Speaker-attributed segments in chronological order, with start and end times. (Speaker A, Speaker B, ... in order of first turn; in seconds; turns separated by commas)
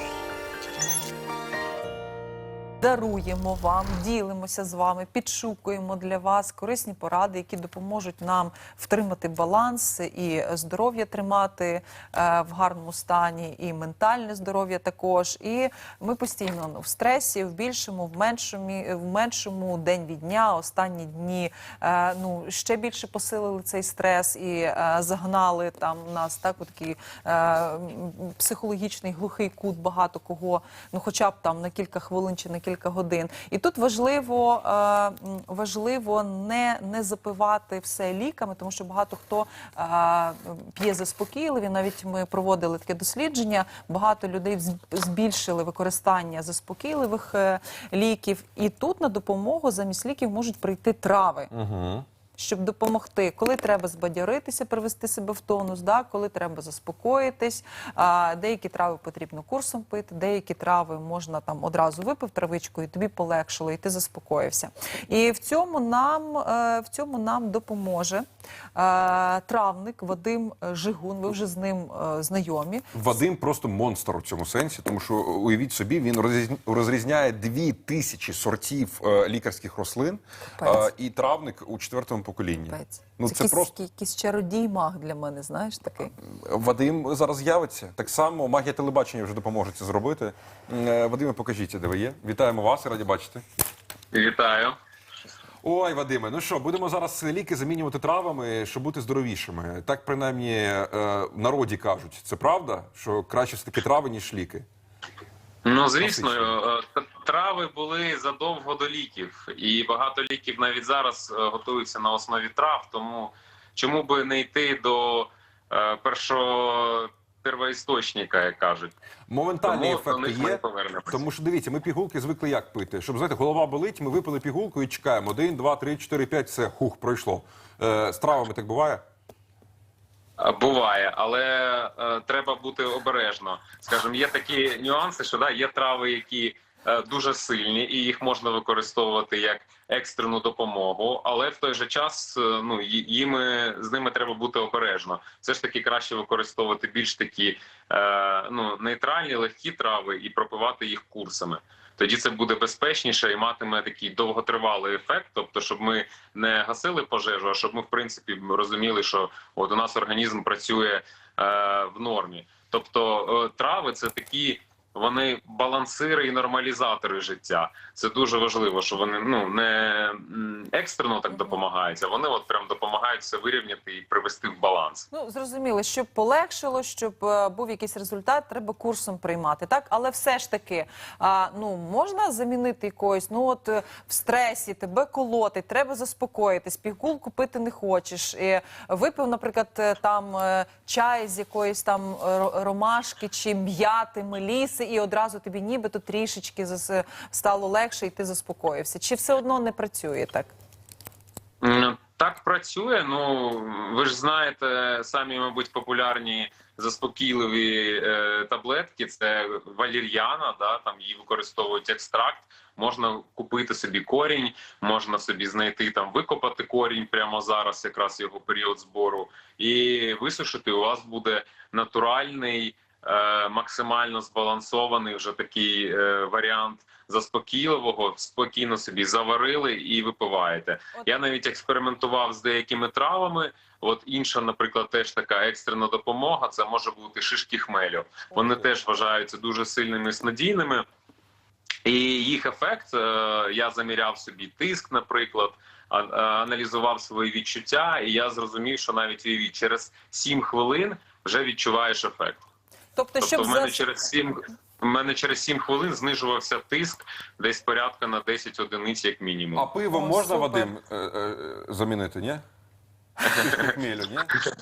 Speaker A: 2.8-51.5, Speaker B: 51.5-52.1, Speaker A: 52.4-68.2, Speaker A: 68.8-72.9, Speaker B: 72.9-83.7, Speaker A: 80.6-80.9, Speaker A: 82.7-86.2, Speaker B: 86.2-93.4, Speaker C: 94.1-94.8, Speaker B: 95.6-104.7, Speaker C: 105.6-118.9, Speaker B: 106.0-106.5, Speaker B: 119.3-129.0, Speaker C: 119.6-121.2, Speaker C: 130.4-175.1, Speaker A: 171.3-171.6, Speaker A: 175.1-200.5, Speaker C: 201.6-240.9, Speaker C: 241.8-252.4, Speaker A: 252.9-253.8, Speaker C: 253.2-259.7, Speaker B: 259.6-262.4, Speaker A: 259.9-260.7, Speaker B: 263.2-264.3, Speaker C: 263.3-263.6